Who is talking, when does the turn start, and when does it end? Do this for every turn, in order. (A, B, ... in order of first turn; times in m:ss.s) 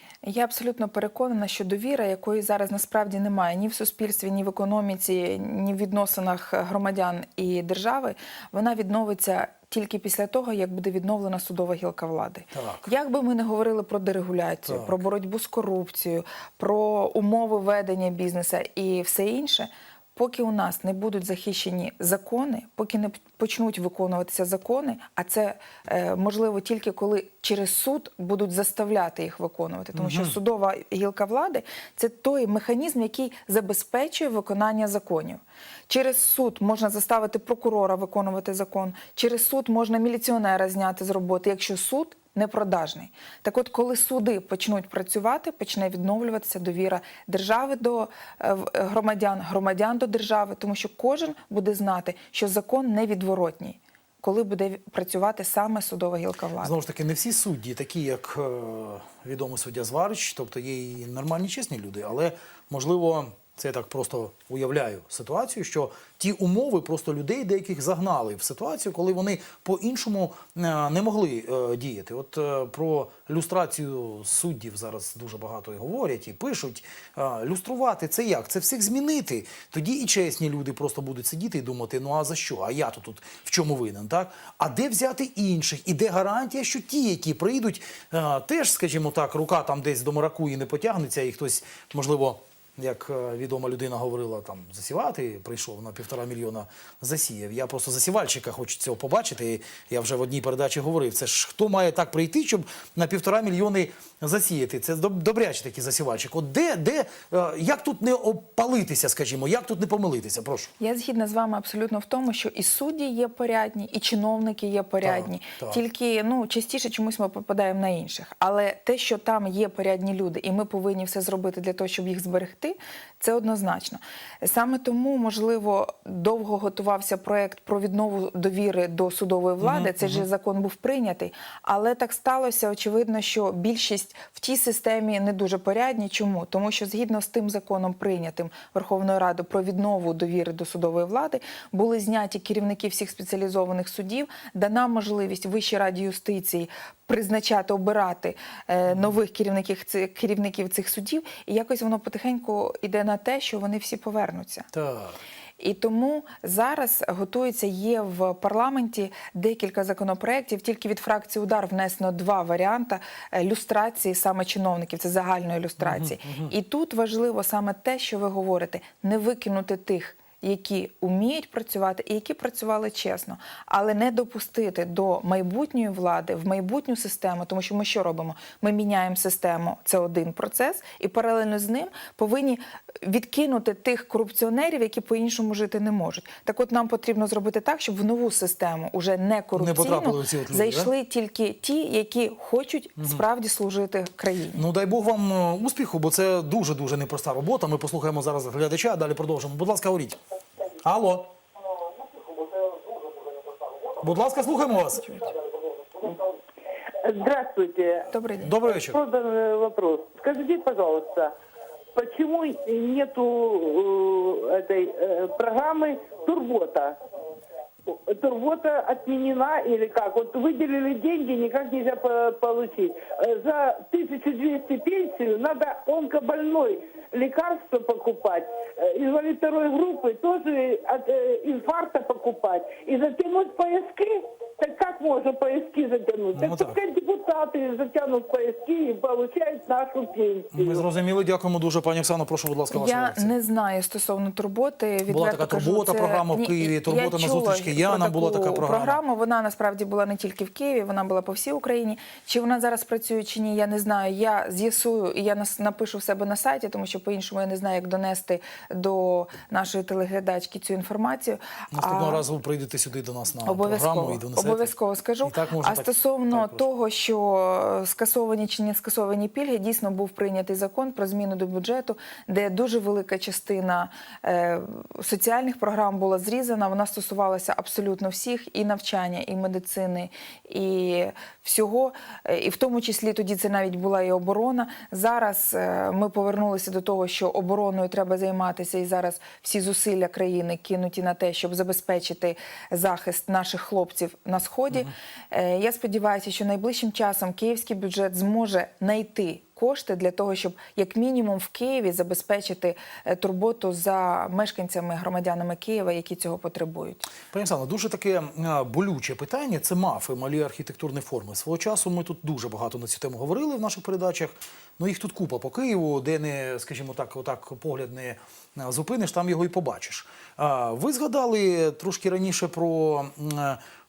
0:00.2-0:56.7 A
0:12.5-0:12.9 B
0:14.6-0:15.0 B
0:29.9-0:30.4 B
0:56.6-1:50.7 B
1:50.8-2:34.7 A
1:55.0-1:55.8 B
2:09.6-2:10.2 B
2:34.7-2:35.2 B
2:35.6-3:14.6 A
2:45.8-2:46.5 B
3:09.6-3:10.9 B
3:14.5-3:20.2 B
3:20.8-3:21.3 B
3:24.0-3:25.1 B
3:27.0-3:28.1 C
3:28.1-3:28.5 A
3:28.4-3:29.0 B
3:28.8-3:31.3 C
3:31.9-3:37.0 C
3:37.9-4:00.8 C
3:56.3-3:56.8 B
4:00.5-4:03.3 B
4:02.7-4:22.2 A
4:05.1-4:09.0 B
4:21.7-4:24.7 B
4:23.4-5:07.1 A
4:25.2-4:26.6 B
5:07.3-5:23.6 B